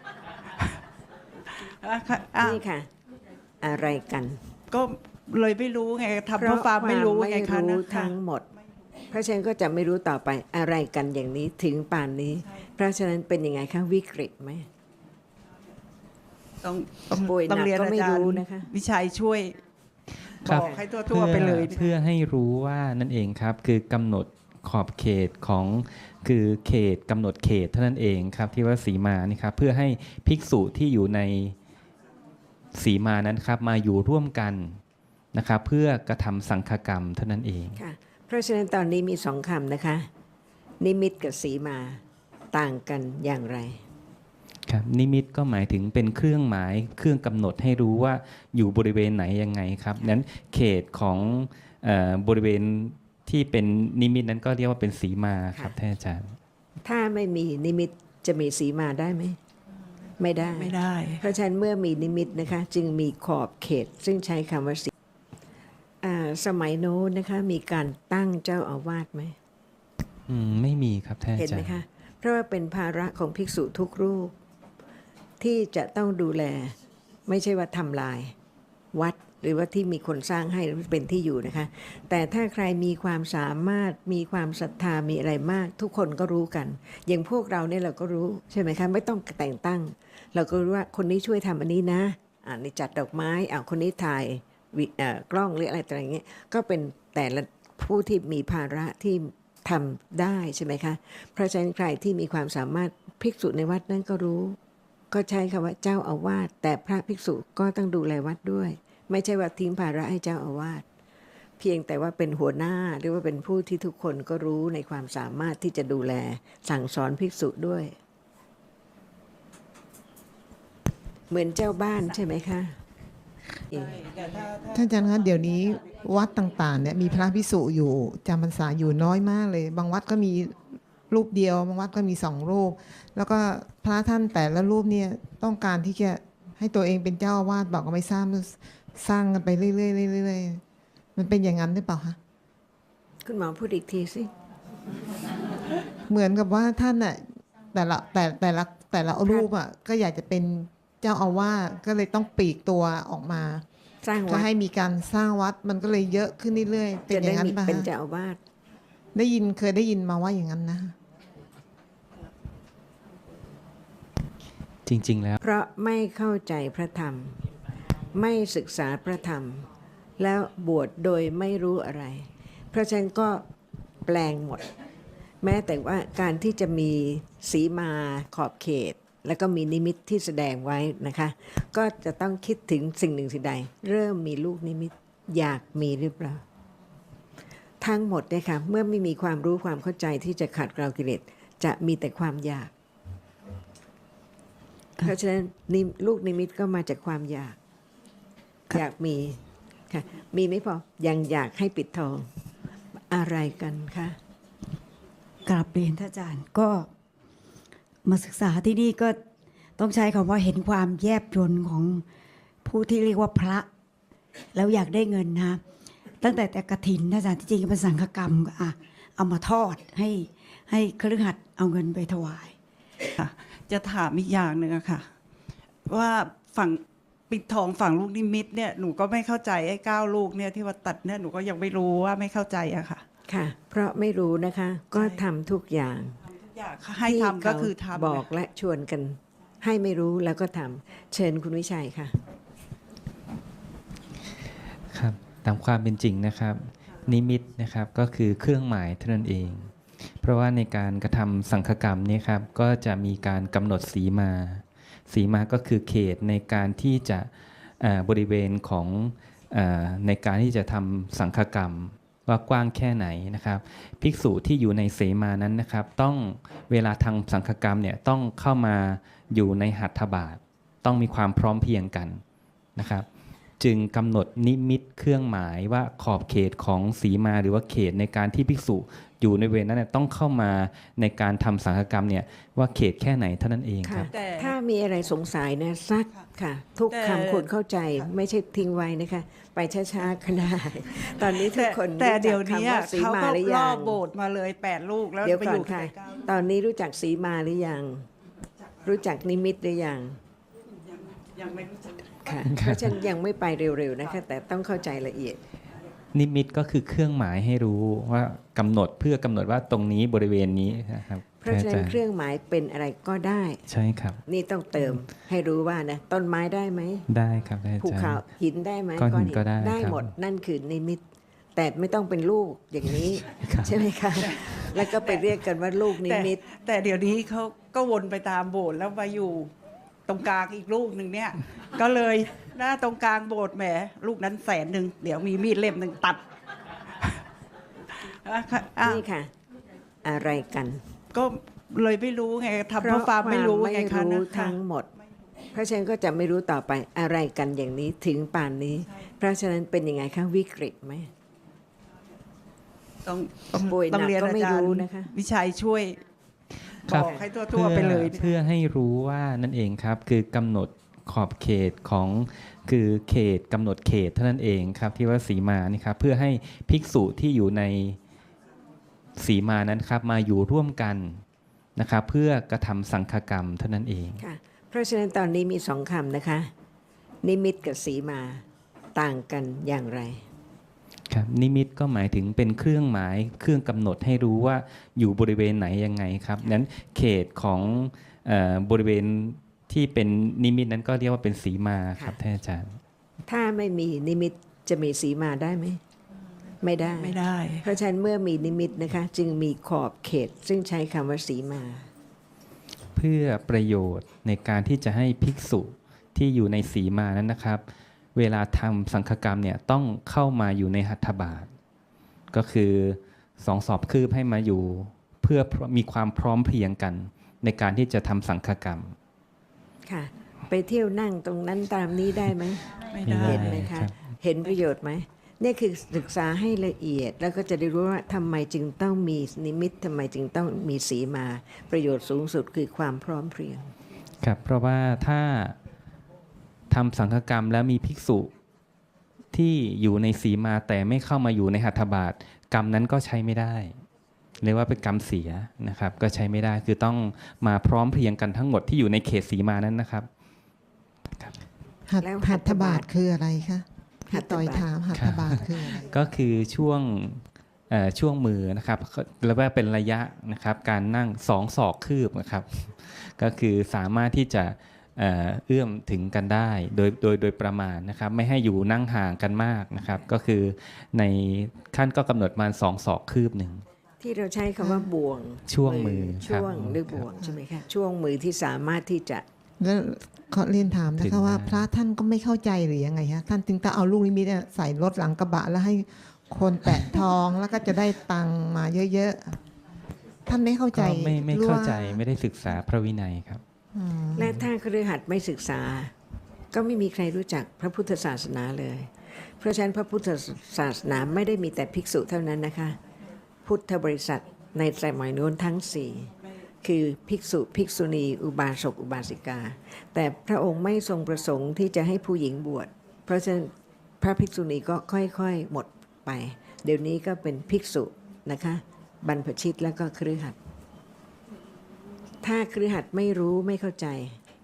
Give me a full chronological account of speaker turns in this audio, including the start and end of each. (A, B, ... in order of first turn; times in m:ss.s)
0:01.7-0:02.6 A
0:02.4-0:02.9 B
0:03.6-0:04.4 B
0:04.7-0:08.1 A
0:06.4-0:08.4 B
0:09.1-0:14.7 B
0:16.6-0:19.6 A
0:17.1-0:18.7 B
0:20.4-0:21.8 A
0:20.4-0:31.5 C
0:20.5-0:20.8 B
0:32.7-0:34.8 C
0:35.3-0:37.8 C
0:37.8-0:40.1 B
0:40.8-0:42.0 B
0:42.5-0:43.8 B
0:44.6-0:56.4 C
0:56.8-0:59.4 B
1:00.2-1:04.9 B
1:00.6-1:01.2 A
1:06.0-1:09.4 B
1:10.3-1:11.8 C
1:11.4-1:14.3 B
1:15.4-1:16.8 B
1:17.3-1:18.3 B
1:18.9-1:44.6 B
1:45.1-1:50.8 B
1:51.6-1:57.9 B
2:01.3-2:02.8 B
2:03.7-2:04.0 B
2:04.7-2:10.6 D
2:11.1-2:20.6 D
2:21.1-2:22.2 D
2:23.2-2:24.3 B
2:26.1-2:33.6 D
2:34.0-2:34.5 B
2:34.2-2:37.9 D
2:37.1-2:38.4 B
2:39.1-2:40.9 D
2:44.8-2:45.4 C
2:45.4-2:47.4 B
2:48.1-2:49.7 B
2:50.2-2:53.4 B
2:54.0-2:54.7 B
2:55.4-3:06.4 B
3:07.8-3:12.7 B
3:15.0-3:17.6 B
3:18.7-3:22.3 B
3:23.0-3:24.2 B
3:25.4-3:26.9 E
3:28.0-3:29.2 E
3:29.8-3:32.0 E
3:32.6-3:33.7 E
3:34.5-3:35.6 E
3:36.2-3:42.5 E
3:43.1-3:45.1 A
3:45.9-3:53.0 A
3:53.3-3:56.2 B
3:54.9-3:55.2 A
3:56.6-3:58.2 A
3:57.0-4:02.2 B
4:04.9-4:32.2 C
4:32.8-4:33.1 C
4:33.6-4:44.1 C
4:43.8-4:54.0 B
4:44.1-4:44.5 A
4:46.9-4:47.5 A
4:51.2-4:56.2 A
4:55.2-4:58.1 B
4:58.8-5:00.2 B
5:01.4-5:01.9 A
5:02.2-5:05.4 B
5:02.4-5:03.0 C
5:06.1-5:12.0 C
5:11.4-5:13.6 B
5:13.7-5:14.2 C
5:14.2-5:17.0 B
5:17.1-5:18.2 C
5:17.8-5:21.0 B
5:19.0-5:20.1 C
5:21.6-5:26.4 B
5:23.3-5:24.3 C
5:24.9-5:25.2 A
5:25.9-5:29.5 A
5:30.1-5:36.2 A
5:38.1-5:39.0 A
5:38.8-5:39.3 B
5:40.0-5:40.8 B
5:41.1-5:44.6 A
5:42.8-5:44.9 B
5:45.5-5:51.1 B
5:53.0-5:56.0 A
5:53.5-5:55.1 B
5:56.8-5:58.3 A
5:56.9-6:08.0 C
5:56.9-5:57.3 B
6:09.2-6:11.2 C
6:11.8-6:14.2 C
6:14.2-6:16.5 B
6:17.2-6:18.4 B
6:18.9-6:20.2 B
6:21.1-6:32.8 C
6:33.2-6:35.8 B
6:36.6-6:41.9 B
6:37.0-6:37.6 A
6:42.9-6:47.6 C
6:48.1-6:51.5 C
6:52.3-6:58.9 C
6:59.8-7:13.7 B
7:02.9-7:03.5 A
7:03.0-7:03.9 C
7:14.2-7:15.6 C
7:16.7-7:18.3 C
7:19.3-7:23.8 C
7:24.4-7:30.1 C
7:31.9-7:35.8 D
7:32.0-7:32.8 B
7:34.1-7:34.6 B
7:34.9-7:53.6 C
7:54.0-7:59.2 B
7:55.5-7:57.0 C
7:59.6-8:09.4 D
8:01.0-8:01.6 C
8:10.2-8:12.0 D
8:10.7-8:13.4 C
8:13.7-8:14.4 D
8:14.2-8:15.9 B
8:16.5-8:22.8 B
8:23.4-8:26.1 B
8:26.6-8:40.4 B
8:42.2-8:44.2 B